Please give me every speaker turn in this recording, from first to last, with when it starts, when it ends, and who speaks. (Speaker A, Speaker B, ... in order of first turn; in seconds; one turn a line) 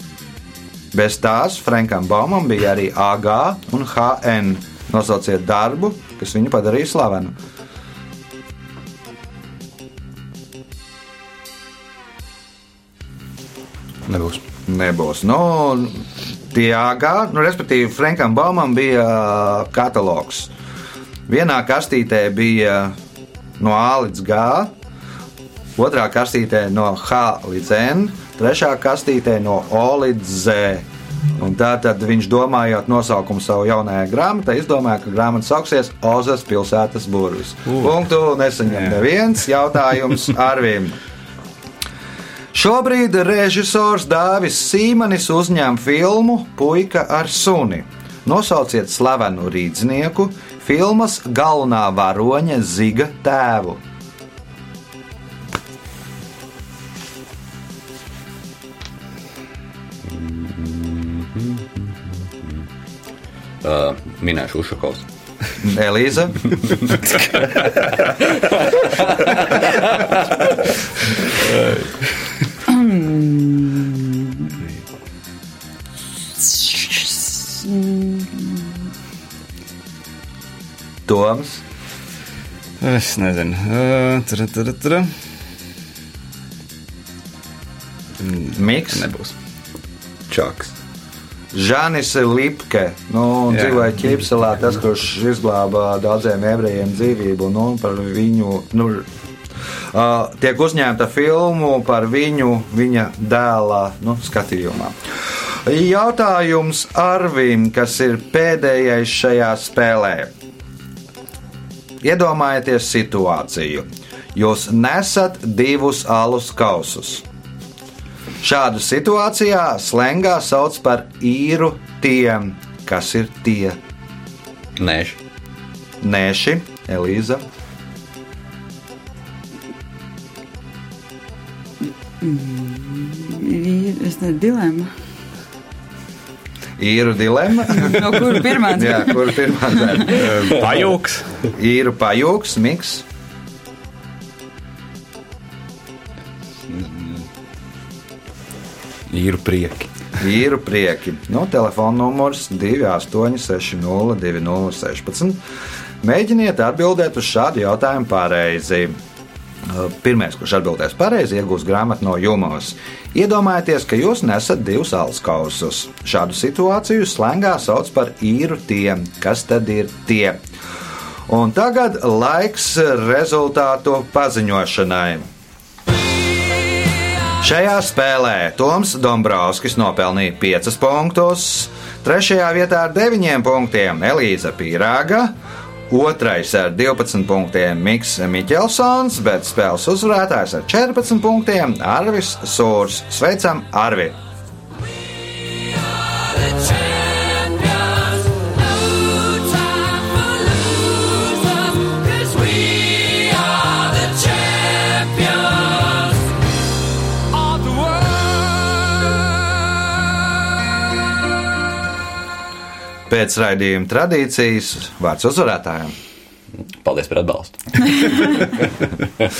Speaker A: 0.9-7.3
Speaker B: 14.1-14.4
Speaker A: 14.7-20.5
Speaker A: 21.3-22.9
Speaker A: 23.6-24.7
Speaker A: 25.8-30.8
Speaker A: 31.4-41.0
Speaker A: 42.5-53.8
Speaker C: 60.0-61.9
Speaker C: 63.6-65.0
Speaker A: 65.6-66.5
Speaker C: 68.7-69.8
Speaker D: 71.5-72.1
Speaker E: 72.7-74.6
Speaker E: 76.4-78.7
Speaker A: 81.0-81.6
Speaker D: 82.8-85.3
Speaker D: 88.2-89.3
Speaker A: 88.5-89.1
Speaker B: 90.3-90.7
Speaker A: 91.5-99.1
Speaker D: 93.5-93.9
Speaker A: 99.9-104.9
Speaker A: 105.6-110.3
Speaker A: 112.0-117.2
Speaker A: 118.4-123.8
Speaker C: 124.8-125.2
Speaker A: 126.0-127.4
Speaker E: 132.2-134.9
Speaker A: 136.8-140.3
Speaker E: 137.7-139.3
Speaker E: 139.9-140.2
Speaker D: 140.1-141.4
Speaker A: 141.5-143.0
Speaker B: 146.7-147.2
Speaker B: 149.1-149.9
Speaker A: 150.2-155.4
Speaker A: 156.0-158.9
Speaker A: 159.6-170.4
Speaker A: 171.3-175.3
Speaker A: 177.4-185.3
Speaker A: 185.9-194.2
Speaker A: 213.1-215.9
Speaker C: 216.7-218.6